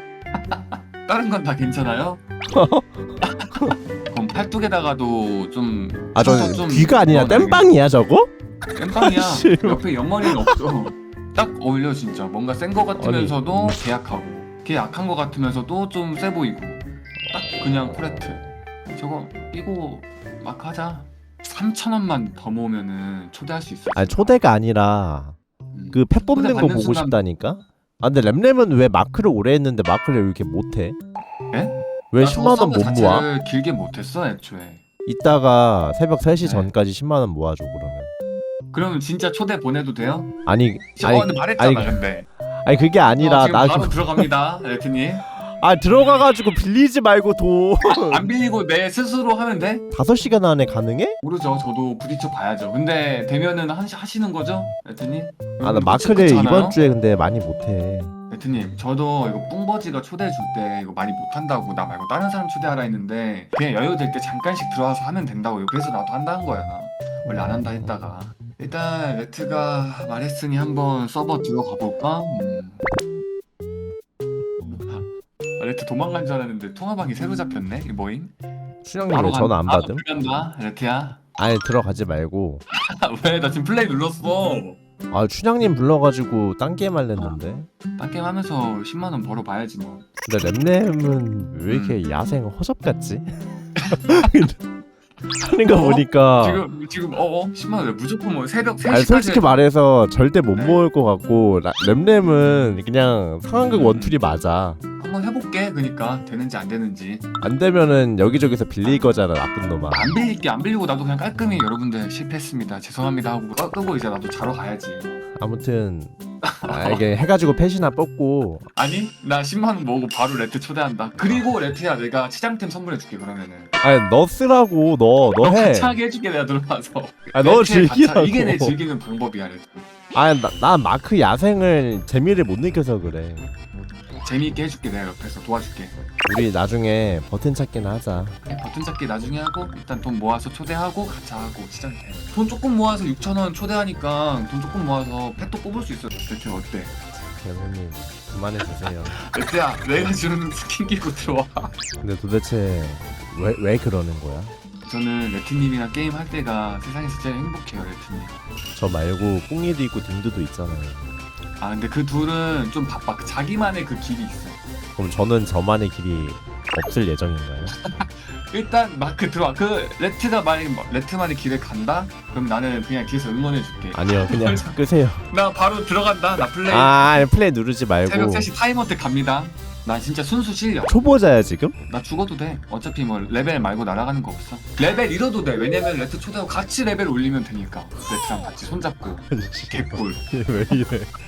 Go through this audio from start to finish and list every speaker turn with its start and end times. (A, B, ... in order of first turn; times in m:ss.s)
0:00.3-0:02.2 A
0:02.5-0:03.8 B
0:03.2-0:07.7 A
0:06.1-0:08.3 B
0:08.7-0:24.4 A
0:09.0-0:10.6 B
0:13.0-0:13.9 B
0:17.2-0:18.5 B
0:23.9-0:25.4 B
0:25.7-0:27.2 A
0:25.9-0:31.0 B
0:31.5-0:34.8 A
0:32.1-0:33.3 B
0:35.1-0:38.1 B
0:36.4-0:36.7 A
0:38.7-0:40.3 A
0:40.5-0:42.0 B
0:41.0-0:42.3 A
0:42.6-0:44.3 B
0:43.1-0:45.3 A
0:45.4-0:48.3 B
0:47.8-0:49.8 A
0:49.9-0:51.2 B
0:51.2-0:56.8 A
0:55.6-0:58.1 B
0:58.3-1:12.8 A
1:14.8-1:18.3 A
1:18.8-1:20.1 B
1:19.1-1:21.2 A
1:21.4-1:22.6 B
1:22.7-1:24.8 A
1:25.1-1:27.7 B
1:28.0-1:30.0 A
1:30.2-1:33.4 B
1:31.7-1:32.0 A
1:33.8-1:34.3 A
1:33.9-1:34.6 B
1:35.4-1:36.7 B
1:35.4-1:39.5 A
1:38.9-1:44.8 B
1:40.5-1:40.8 A
1:43.5-1:44.2 A
1:45.0-1:47.2 A
1:47.4-1:50.2 B
1:49.9-1:55.1 A
1:55.4-1:56.1 B
1:56.4-1:57.1 A
1:56.7-1:58.7 B
1:58.8-2:03.7 A
2:01.2-2:01.5 B
2:03.8-2:06.0 B
2:05.4-2:09.9 A
2:07.3-2:08.8 B
2:10.1-2:13.5 B
2:14.2-2:16.0 A
2:16.2-2:18.4 B
2:18.5-2:26.9 A
2:27.4-2:29.2 B
2:29.1-2:31.7 A
2:32.0-2:34.6 B
2:34.8-2:38.4 A
2:38.8-2:41.2 B
2:41.6-2:44.6 A
2:45.0-2:47.8 B
2:47.7-2:57.3 A
2:53.9-2:55.3 B
2:56.7-2:58.5 B
2:58.0-3:01.0 A
3:00.9-3:01.8 B
3:01.9-3:10.2 A
3:09.3-3:11.1 B